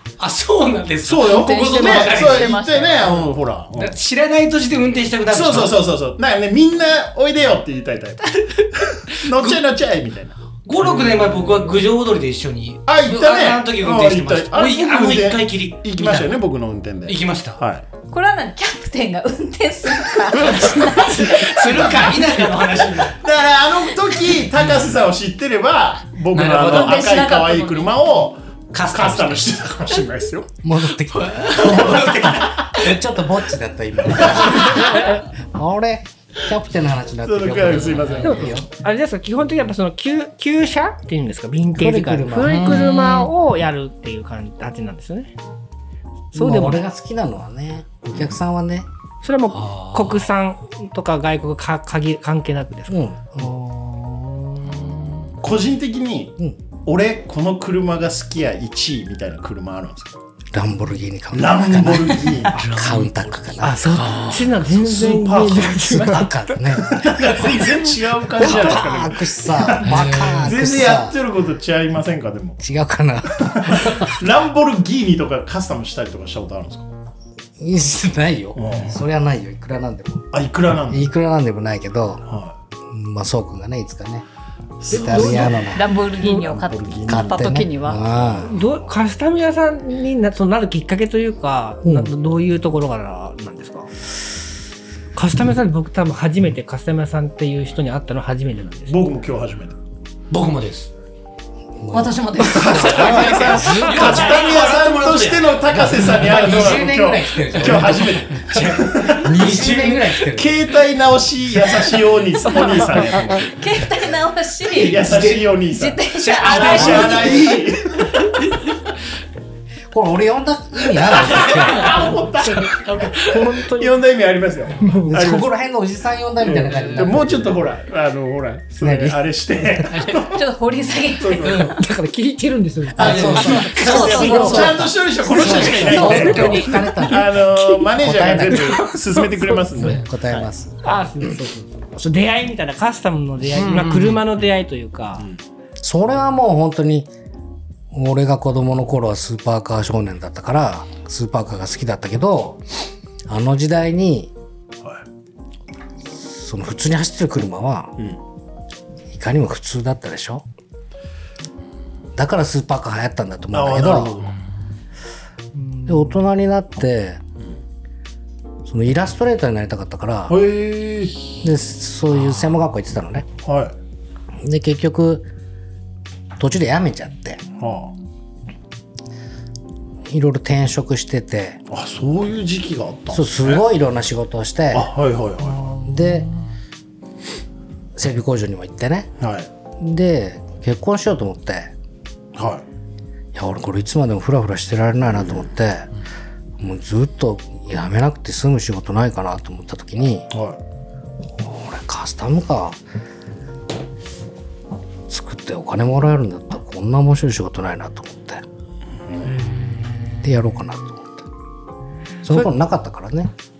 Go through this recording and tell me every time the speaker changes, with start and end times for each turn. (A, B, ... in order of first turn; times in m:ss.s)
0:00.2-0:02.6 A
0:01.0-0:04.0 B
0:01.2-0:03.3 C
0:03.8-0:05.8 A
0:05.3-0:10.4 B
0:09.3-0:09.6 A
0:10.6-0:16.4 A
0:12.8-0:17.8 B
0:17.1-0:17.6 A
0:18.1-0:22.3 C
0:20.6-0:23.2 A
0:23.1-0:30.5 B
0:26.3-0:27.1 A
0:26.7-0:28.0 C
0:28.7-0:29.5 A
0:30.6-0:38.6 D
0:31.1-0:33.2 A
0:34.7-0:35.2 E
0:37.2-0:38.6 B
0:38.2-0:45.3 E
0:41.8-0:42.8 D
0:42.4-0:43.3 A
0:46.3-0:46.8 E
0:46.3-0:48.9 D
0:49.2-0:55.0 E
0:49.6-0:50.2 A
0:52.9-0:53.5 D
0:55.4-1:00.1 B
1:00.5-1:04.0 D
1:01.3-1:02.6 B
1:02.5-1:03.1 A
1:03.6-1:06.7 E
1:03.8-1:04.5 A
1:04.7-1:06.1 B
1:06.0-1:07.7 D
1:06.8-1:12.6 B
1:08.3-1:11.2 D
1:09.8-1:10.5 A
1:12.6-1:14.1 D
1:13.5-1:16.9 B
1:17.6-1:20.3 D
1:18.5-1:19.0 B
1:20.3-1:21.1 B
1:20.9-1:22.2 D
1:22.2-1:22.5 B
1:22.9-1:24.2 D
1:24.8-1:25.6 B
1:24.9-1:25.9 D
1:24.9-1:28.1 C
1:26.2-1:27.6 B
1:27.0-1:28.6 D
1:28.4-1:33.9 E
1:31.8-1:32.1 D
1:35.1-1:39.0 E
1:38.9-1:39.8 B
1:40.3-1:40.9 A
1:41.8-1:43.9 D
1:41.9-1:43.4 C
1:42.4-1:49.5 B
1:42.8-1:46.8 A
1:43.6-1:43.9 E
1:45.8-1:50.5 D
1:47.6-1:50.2 A
1:50.3-1:53.6 B
1:52.5-1:53.4 E
1:53.4-1:57.6 C
1:54.8-1:58.3 B
1:55.0-1:55.5 A
1:56.1-1:57.6 A
1:56.8-1:57.3 D
1:59.9-2:02.0 D
2:01.2-2:01.6 A
2:01.2-2:05.5 B
2:02.6-2:04.0 E
2:02.7-2:03.4 A
2:04.8-2:05.3 E
2:05.0-2:07.5 D
2:06.4-2:10.4 B
2:06.7-2:07.1 A
2:08.8-2:09.2 D
2:09.9-2:10.3 A
2:10.3-2:11.8 C
2:11.2-2:11.7 B
2:11.4-2:11.7 A
2:11.7-2:14.6 E
2:13.0-2:18.8 D
2:13.0-2:14.7 A
2:13.0-2:20.5 B
2:13.2-2:17.0 C
2:15.4-2:16.0 A
2:16.0-2:16.9 E
2:18.6-2:19.9 E
2:19.8-2:21.4 D
2:20.8-2:25.2 E
2:23.5-2:24.2 A
2:25.8-2:27.1 D
2:27.9-2:32.6 D
2:33.3-2:34.3 D
2:36.1-2:38.0 D
2:39.1-2:40.4 D
2:42.2-2:44.1 D
2:43.5-2:44.4 B
2:45.6-2:46.1 E
2:45.9-2:47.2 D
2:48.6-2:50.4 D
2:50.3-2:51.3 B
2:51.4-2:53.2 D
2:53.4-2:53.7 B
2:54.4-2:55.3 D
2:56.4-2:57.4 D
2:57.6-2:57.9 B
3:00.1-3:01.6 D
3:01.7-3:03.6 B
3:03.1-3:04.9 D
3:04.7-3:05.7 B
3:05.8-3:06.3 D
3:08.0-3:09.1 D
3:09.2-3:09.5 B
3:09.8-3:11.7 D
3:12.3-3:12.6 B
3:13.3-3:15.9 D
3:15.2-3:15.4 B
3:16.6-3:20.3 D
3:20.3-3:20.6 B
3:21.4-3:22.8 D
3:25.1-3:28.4 D
3:29.0-3:29.4 B
3:30.2-3:31.2 D
3:32.2-3:33.3 D